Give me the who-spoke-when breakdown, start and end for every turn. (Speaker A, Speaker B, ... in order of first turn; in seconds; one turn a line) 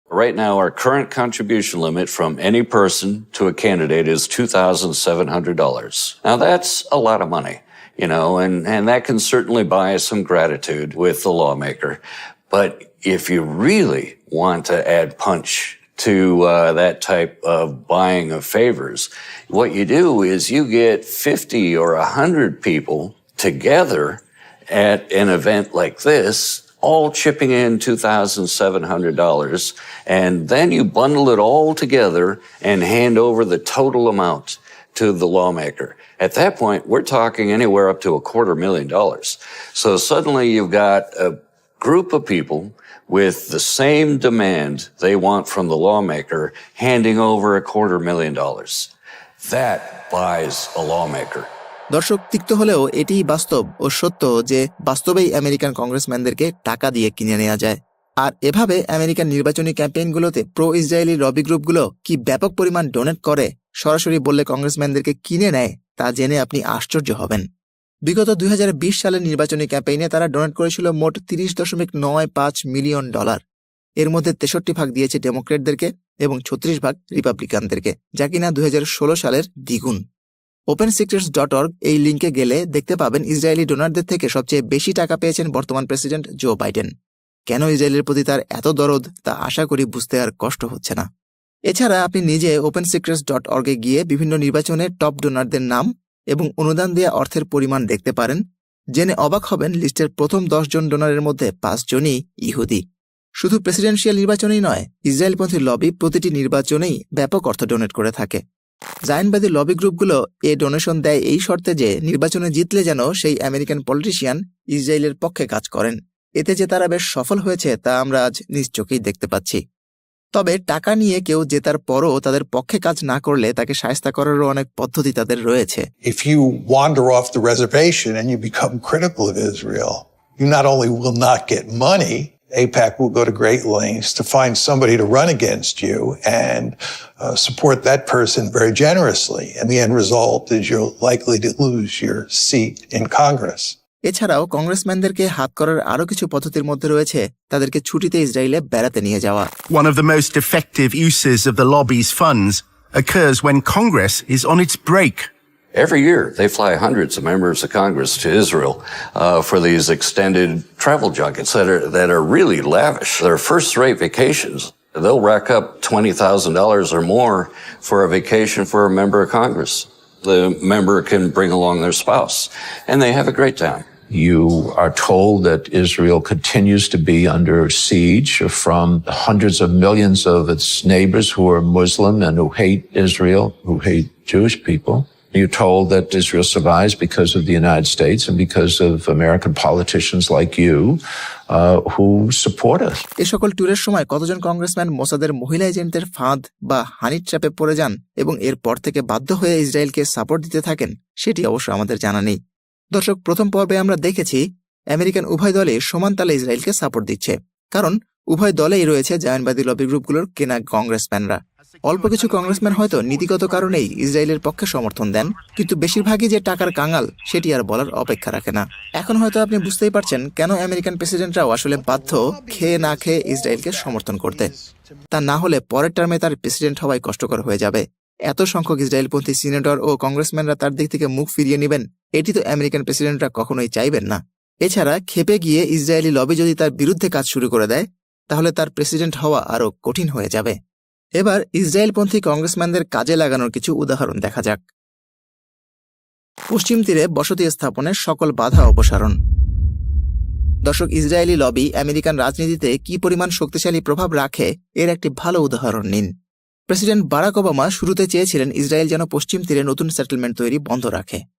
Speaker A: 0.1-51.5
Speaker B: 51.9-67.4
Speaker B: 68.1-73.4
Speaker B: 74.0-80.0
Speaker B: 80.7-86.9
Speaker B: 87.5-91.0
Speaker B: 91.7-98.4
Speaker B: 99.0-102.8
Speaker B: 103.4-108.4
Speaker B: 109.1-119.6
Speaker B: 120.3-125.9
Speaker C: 126.0-143.8
Speaker B: 144.1-149.5
Speaker D: 149.7-155.3
Speaker A: 155.7-173.9
Speaker E: 174.1-193.1
Speaker B: 193.2-202.3
Speaker B: 202.9-204.4
Speaker B: 204.9-224.5
Speaker D: 211.8-213.8
Speaker B: 225.1-240.6
Speaker B: 241.2-244.6
Speaker B: 246.5-249.2
Speaker B: 250.7-256.1
Speaker B: 256.7-261.2